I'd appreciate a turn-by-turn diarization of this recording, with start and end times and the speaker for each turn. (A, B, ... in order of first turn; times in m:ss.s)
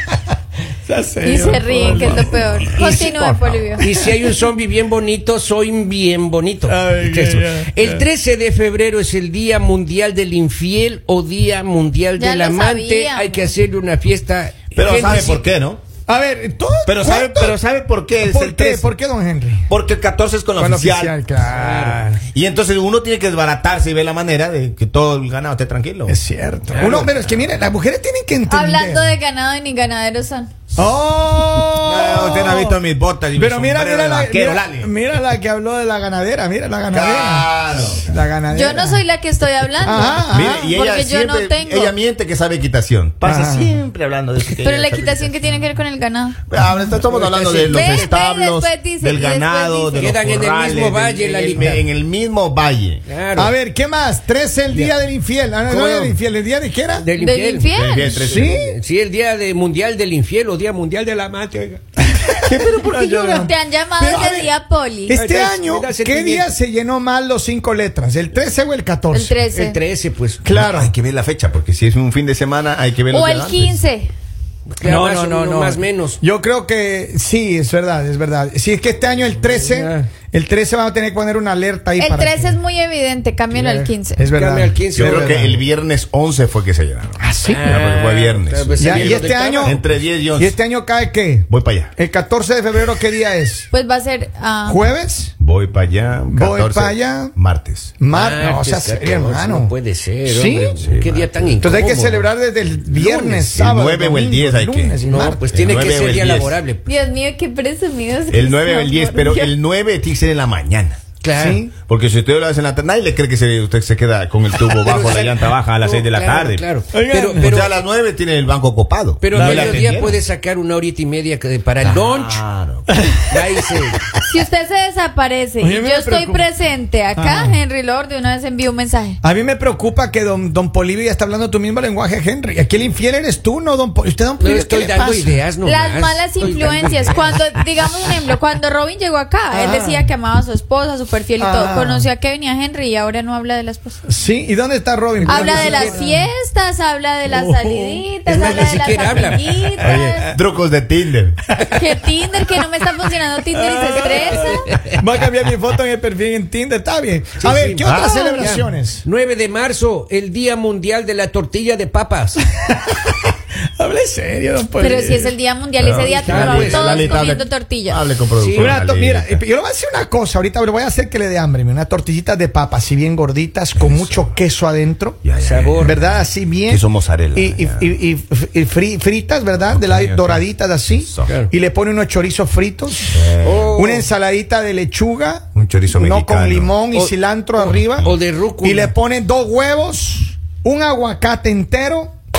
0:00.8-0:04.2 A
0:01.2-0:03.8 B
0:03.8-0:15.5 C
0:06.6-0:08.0 A
0:12.2-0:13.4 B
0:14.7-0:15.8 D
0:16.1-0:17.6 A
0:16.8-0:18.9 D
0:18.2-0:19.7 A
0:19.7-0:26.2 D
0:20.6-0:21.7 A
0:21.5-0:22.2 C
0:26.1-0:29.2 A
0:26.7-0:27.1 C
0:26.8-0:27.2 D
0:28.5-0:30.5 B
0:30.8-0:32.8 A
0:31.8-0:34.9 D
0:33.3-0:39.0 A
0:36.9-0:38.1 D
0:38.5-0:41.9 B
0:39.8-0:40.7 A
0:40.2-0:45.4 D
0:43.2-0:43.8 A
0:44.6-0:46.4 B
0:46.5-0:53.0 D
0:46.8-0:48.1 C
0:47.7-0:50.2 B
0:49.9-0:51.9 C
0:53.1-0:53.5 C
0:53.4-0:57.1 A
0:55.6-0:56.2 C
0:57.0-0:57.7 C
0:57.2-0:58.4 B
0:57.7-0:58.6 D
0:58.2-0:58.8 A
0:58.3-1:01.8 C
1:02.0-1:04.5 A
1:02.7-1:03.2 D
1:03.2-1:05.2 B
1:05.1-1:09.3 A
1:05.1-1:06.5 C
1:09.1-1:09.8 B
1:09.5-1:10.4 C
1:10.4-1:10.9 A
1:10.5-1:13.8 D
1:13.1-1:14.1 B
1:14.7-1:16.2 C
1:14.8-1:22.6 A
1:19.5-1:20.1 C
1:22.0-1:24.3 B
1:23.5-1:25.5 C
1:24.2-1:25.6 A
1:25.0-1:30.5 D
1:27.2-1:27.8 A
1:27.4-1:29.8 C
1:28.8-1:33.7 A
1:31.5-1:31.9 D
1:33.7-1:34.8 B
1:34.6-1:35.3 A
1:35.4-1:37.9 D
1:36.3-1:37.3 A
1:38.0-1:39.7 A
1:38.1-1:42.3 C
1:40.2-1:40.8 A
1:40.8-1:41.5 D
1:41.6-1:45.5 A
1:42.9-1:46.6 D
1:43.0-1:43.4 C
1:45.0-1:46.8 C
1:46.8-1:49.5 B
1:48.3-1:51.0 D
1:51.2-1:51.6 C
1:51.3-1:51.7 A
1:51.8-1:56.6 D
1:54.8-1:57.7 C
1:56.9-1:57.5 A
1:57.4-2:00.2 D
1:59.2-2:02.4 C
1:59.3-2:00.0 A
2:01.8-2:02.9 D
2:02.9-2:03.2 A
2:03.3-2:04.0 C
2:04.2-2:09.2 B
2:05.6-2:06.4 A
2:07.1-2:07.6 A
2:09.2-2:15.4 A
2:14.4-2:17.4 C
2:15.6-2:24.0 B
2:19.5-2:20.1 A
2:21.4-2:22.1 A
2:24.1-2:26.3 A
2:25.2-2:26.0 C
2:25.2-2:30.3 B
2:27.3-2:28.0 A
2:28.2-2:30.1 C
2:29.8-2:30.2 A
2:29.8-2:31.4 D
2:31.7-2:34.7 B
2:33.5-2:39.0 A
2:34.0-2:34.8 C
2:37.4-2:42.4 C
2:37.8-2:38.5 D
2:42.6-2:43.2 A
2:43.8-2:45.3 A
2:44.8-2:48.0 B
2:45.8-2:49.4 D
2:45.9-2:46.5 A
2:46.2-2:47.1 C
2:48.4-2:48.8 C
2:48.5-2:55.2 A
2:53.8-2:54.3 D
2:55.2-2:57.9 D
2:55.4-2:56.0 C
2:55.8-2:56.8 A
2:57.3-3:03.2 A
2:59.7-3:01.3 D
3:03.1-3:03.8 D
3:03.4-3:04.1 C
3:03.7-3:08.1 A
3:05.5-3:06.7 D
3:06.9-3:08.9 C
3:08.6-3:12.1 A